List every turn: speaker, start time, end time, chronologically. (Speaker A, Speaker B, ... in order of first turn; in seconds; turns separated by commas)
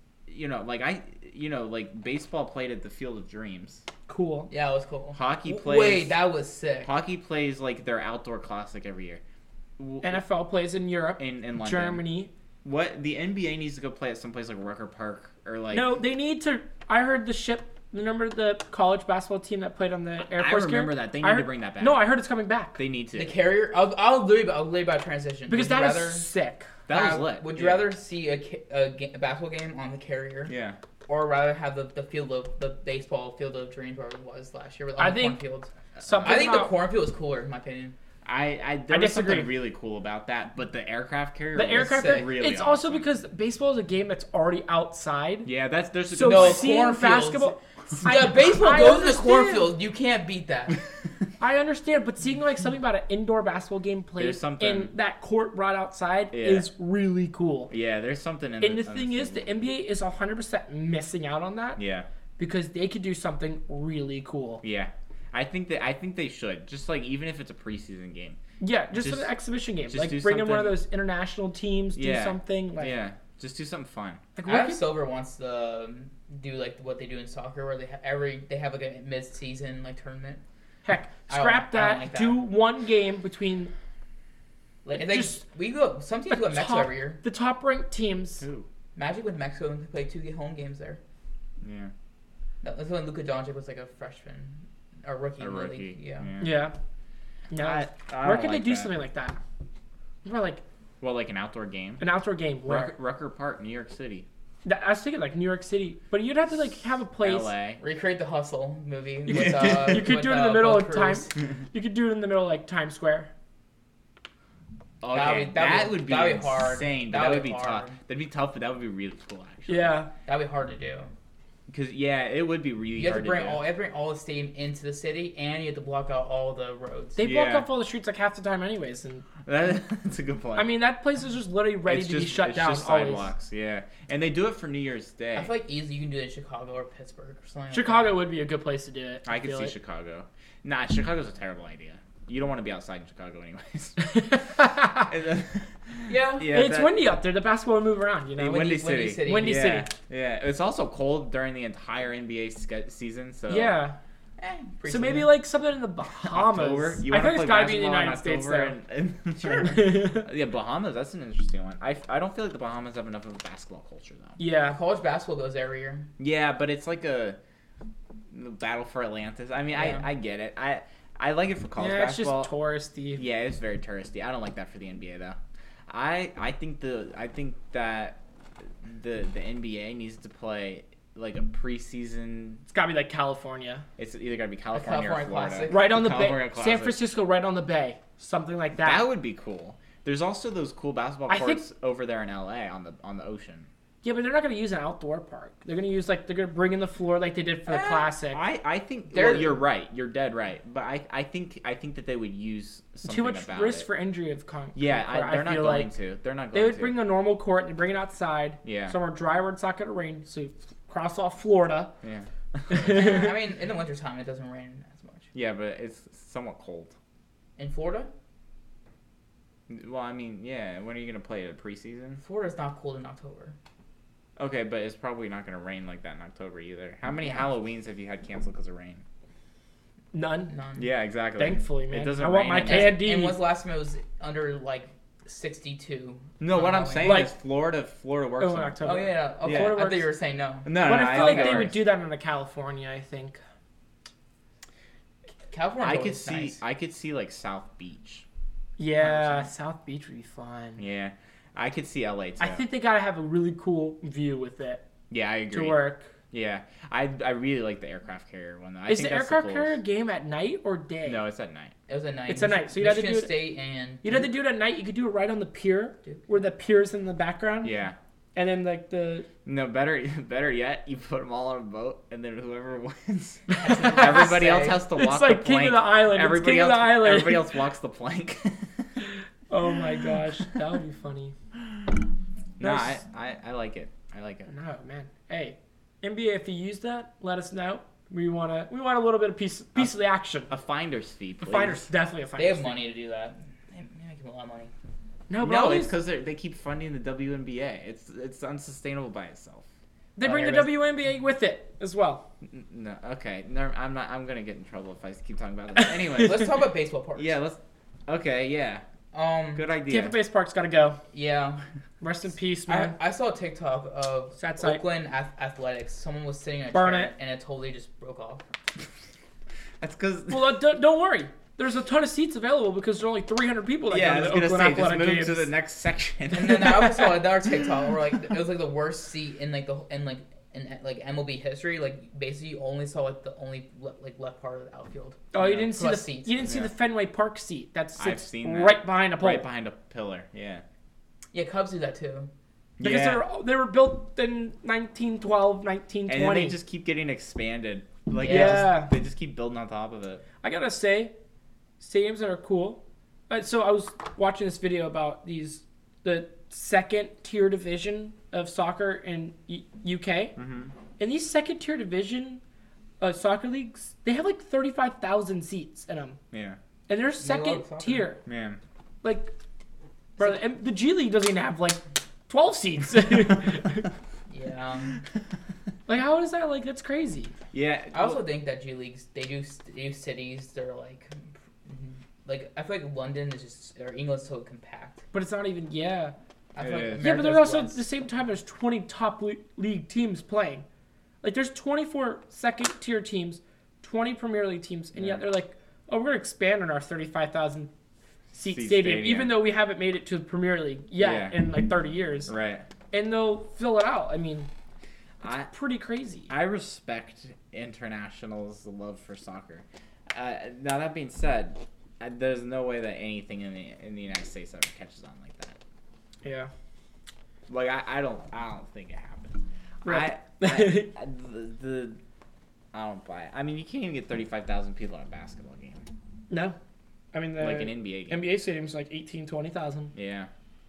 Speaker A: 0.3-3.9, Speaker B: 4.1-4.5, Speaker C: 4.5-6.9, Speaker A: 5.1-6.2, Speaker A: 6.8-9.2, Speaker A: 9.8-10.2, Speaker B: 10.0-12.3, Speaker A: 11.2-12.0, Speaker A: 12.6-16.0, Speaker B: 15.7-22.8, Speaker A: 20.3-22.1, Speaker A: 22.8-23.3, Speaker C: 23.1-26.3, Speaker B: 25.5-26.7, Speaker A: 26.9-27.9, Speaker C: 26.9-30.5, Speaker A: 30.5-30.8, Speaker C: 31.1-38.0, Speaker B: 35.0-35.4, Speaker B: 36.0-36.7, Speaker A: 38.2-43.1, Speaker B: 38.9-39.5, Speaker B: 41.5-45.5, Speaker C: 41.7-42.3, Speaker A: 45.5-46.7, Speaker B: 46.1-49.7, Speaker C: 46.2-50.8, Speaker B: 51.4-57.7, Speaker A: 54.2-54.9, Speaker A: 56.3-56.7, Speaker A: 57.7-59.6, Speaker B: 58.6-61.8, Speaker A: 61.8-62.1, Speaker B: 62.4-64.6, Speaker A: 64.6-68.4, Speaker B: 68.6-73.0, Speaker A: 68.9-69.3, Speaker A: 69.8-70.8, Speaker A: 72.0-74.2, Speaker B: 74.4-74.8, Speaker C: 74.5-80.4, Speaker B: 80.8-83.7, Speaker C: 81.3-82.4, Speaker C: 84.8-87.2, Speaker B: 84.9-85.4, Speaker B: 86.3-88.4, Speaker A: 88.4-88.7, Speaker C: 89.0-91.0, Speaker A: 91.6-91.9, Speaker C: 92.6-96.3, Speaker A: 95.4-96.7, Speaker B: 96.4-96.7, Speaker B: 97.5-99.4, Speaker A: 97.6-98.9, Speaker B: 100.2-100.6, Speaker A: 101.0-102.1, Speaker B: 102.0-103.0, Speaker A: 102.7-104.3, Speaker B: 104.7-107.5, Speaker A: 107.2-107.8, Speaker C: 107.8-111.4, Speaker B: 109.3-113.3, Speaker A: 115.0-120.0, Speaker C: 115.1-118.0, Speaker B: 119.7-120.1, Speaker C: 120.3-121.1, Speaker A: 121.7-123.6, Speaker C: 123.0-127.2, Speaker B: 127.2-129.3, Speaker A: 127.2-127.7, Speaker A: 129.4-130.7, Speaker B: 130.6-133.3, Speaker A: 131.9-135.5, Speaker C: 135.4-138.2, Speaker B: 137.7-139.7, Speaker A: 139.3-147.0, Speaker B: 144.0-145.1, Speaker C: 146.1-146.5, Speaker B: 146.5-149.9, Speaker A: 148.4-153.8, Speaker C: 148.5-149.7, Speaker B: 153.5-154.0, Speaker C: 154.4-155.3, Speaker B: 154.9-158.8, Speaker A: 156.2-164.4, Speaker B: 159.5-160.3, Speaker B: 164.4-164.8, Speaker C: 164.6-166.1, Speaker A: 166.2-167.4, Speaker A: 168.3-172.5, Speaker C: 169.7-170.1, Speaker B: 171.8-173.2, Speaker A: 173.2-178.2, Speaker A: 178.8-182.6, Speaker B: 182.7-183.8, Speaker A: 184.0-187.0, Speaker C: 184.7-185.9, Speaker B: 185.7-189.1, Speaker A: 188.8-193.7, Speaker B: 191.3-191.6, Speaker B: 194.0-198.4, Speaker C: 197.7-198.1, Speaker A: 198.3-203.9, Speaker C: 199.1-199.6, Speaker B: 203.1-205.9, Speaker A: 204.8-207.0, Speaker B: 206.5-211.9, Speaker A: 208.6-208.9, Speaker A: 212.0-213.2, Speaker B: 212.7-213.3, Speaker C: 212.8-215.3, Speaker A: 215.3-216.9, Speaker C: 217.6-218.1, Speaker A: 219.7-222.2, Speaker C: 222.2-223.6, Speaker A: 224.4-229.0, Speaker B: 230.1-230.5, Speaker C: 230.5-230.9, Speaker A: 230.8-233.1, Speaker B: 231.4-233.4, Speaker C: 232.6-237.3, Speaker A: 236.4-239.9, Speaker B: 237.0-237.3, Speaker B: 238.4-240.1, Speaker C: 238.8-241.7, Speaker A: 240.7-241.8, Speaker B: 240.8-243.4, Speaker C: 245.5-246.6, Speaker A: 245.8-248.2, Speaker B: 248.8-250.8, Speaker A: 249.0-249.5, Speaker A: 250.8-252.6, Speaker B: 252.4-254.8, Speaker A: 255.1-259.8, Speaker B: 255.5-256.1, Speaker B: 258.9-261.2, Speaker A: 261.0-261.7, Speaker C: 261.9-264.2, Speaker B: 262.3-263.3, Speaker B: 264.0-267.8, Speaker A: 267.6-268.0, Speaker B: 268.4-269.3, Speaker A: 269.4-278.9, Speaker B: 273.5-274.4, Speaker C: 273.6-274.8, Speaker B: 274.9-277.5, Speaker B: 279.5-281.4, Speaker A: 281.6-282.0, Speaker A: 282.6-284.5, Speaker B: 282.6-283.0, Speaker B: 284.5-290.5, Speaker A: 289.8-291.9, Speaker B: 291.4-292.8, Speaker C: 292.4-294.7, Speaker B: 295.3-295.9, Speaker A: 295.4-299.6, Speaker B: 300.2-302.2, Speaker C: 300.3-300.6, Speaker A: 300.3-300.6, Speaker A: 302.4-306.5, Speaker C: 306.1-307.4, Speaker A: 307.2-308.8, Speaker C: 309.1-309.7, Speaker A: 309.6-310.2, Speaker B: 309.9-311.0, Speaker C: 311.1-311.6, Speaker B: 312.0-312.9, Speaker C: 312.7-318.4, Speaker B: 314.4-314.8, Speaker B: 316.7-317.1, Speaker A: 319.8-320.6, Speaker B: 320.3-325.5, Speaker A: 323.9-327.2, Speaker C: 326.3-336.4, Speaker B: 335.3-339.5, Speaker A: 336.4-336.7, Speaker A: 338.0-340.6, Speaker C: 341.3-342.3, Speaker A: 342.8-343.2, Speaker B: 342.8-346.6, Speaker A: 346.1-350.2, Speaker C: 348.2-348.7, Speaker B: 348.2-348.9, Speaker B: 350.4-351.1, Speaker B: 351.8-360.4, Speaker A: 360.4-360.7, Speaker B: 361.0-362.4, Speaker B: 363.0-366.2, Speaker A: 366.3-366.6, Speaker B: 366.9-368.2, Speaker C: 367.2-368.1, Speaker A: 368.2-368.6, Speaker B: 369.0-369.3, Speaker B: 370.2-373.9, Speaker C: 374.3-375.0, Speaker B: 375.9-377.3, Speaker A: 377.5-378.2, Speaker C: 377.9-385.1, Speaker B: 385.1-386.1, Speaker C: 386.6-387.9, Speaker A: 386.6-387.1, Speaker B: 387.0-390.6, Speaker B: 391.2-397.7, Speaker A: 394.9-395.2, Speaker B: 398.3-402.3, Speaker A: 398.4-399.4, Speaker A: 401.0-401.6, Speaker A: 402.3-402.7, Speaker B: 402.9-404.5, Speaker A: 405.2-405.5, Speaker B: 405.3-406.3, Speaker A: 406.3-415.6, Speaker B: 416.2-416.5, Speaker A: 417.5-422.0, Speaker B: 419.9-420.9, Speaker A: 422.7-425.9, Speaker B: 426.3-426.6, Speaker B: 427.1-429.9, Speaker A: 427.4-428.3, Speaker A: 429.9-430.3